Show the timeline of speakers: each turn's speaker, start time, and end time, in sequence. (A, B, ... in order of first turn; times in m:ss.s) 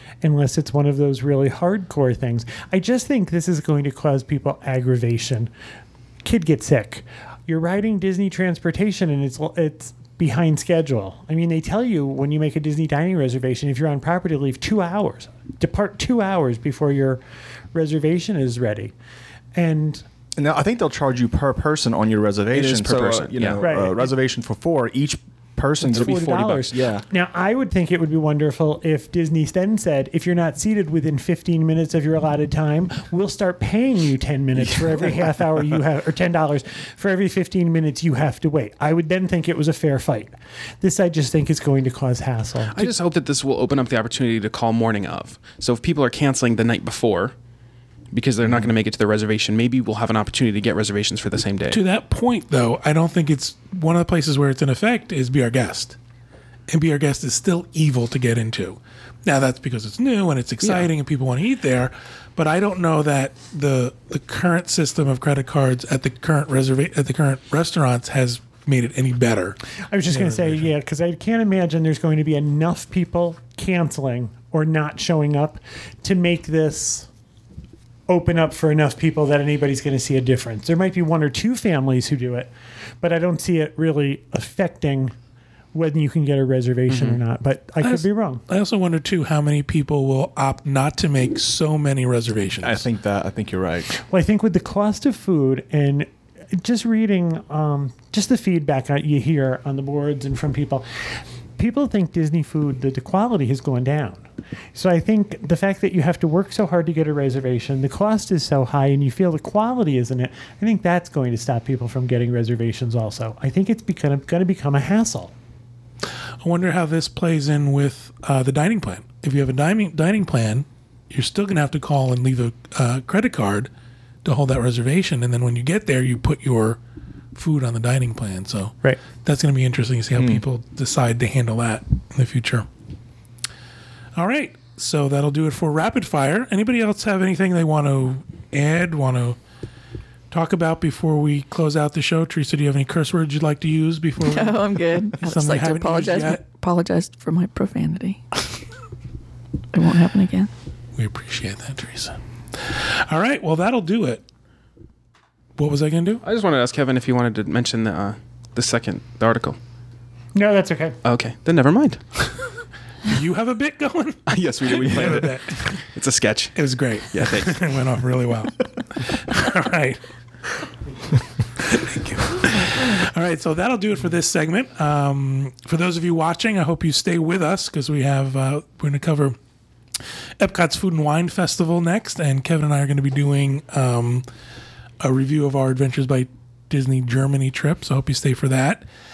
0:00.2-0:05.5 A
0:06.2-0:17.2 A
0:17.7-0:18.9 A
0:19.6-0:20.0 A
0:20.4-0:27.0 B
0:22.5-0:23.6 C
0:23.6-0:24.1 A
0:25.8-0:42.8 A
0:25.9-0:26.8 C
0:34.7-0:35.1 B
0:42.7-0:47.4 C
0:48.1-0:51.8 C
0:51.7-0:56.0 D
0:56.7-1:09.6 D
1:00.6-1:00.9 C
1:09.9-1:17.1 A
1:10.1-1:10.7 D
1:18.1-1:25.1 A
1:25.7-1:28.4 A
1:26.9-1:27.2 C
1:27.8-1:32.9 D
1:32.6-1:33.9 B
1:34.0-1:40.9 A
1:41.6-1:55.3 A
1:56.4-2:03.7 D
2:04.2-2:06.8 D
2:07.4-2:12.7 D
2:10.2-2:10.4 B
2:14.2-2:19.4 D
2:20.3-2:26.4 D
2:24.3-2:28.4 E
2:29.7-2:30.5 E
2:31.0-2:34.2 D
2:35.6-2:36.2 D
2:36.2-2:39.6 C
2:40.3-2:41.0 A
2:41.0-2:42.0 C
2:43.1-2:45.9 D
2:44.3-2:46.6 C
2:44.9-2:45.2 B
2:46.6-2:50.0 D
2:47.1-2:47.7 C
2:51.6-2:59.4 D
3:00.4-3:04.2 D
3:05.0-3:08.8 D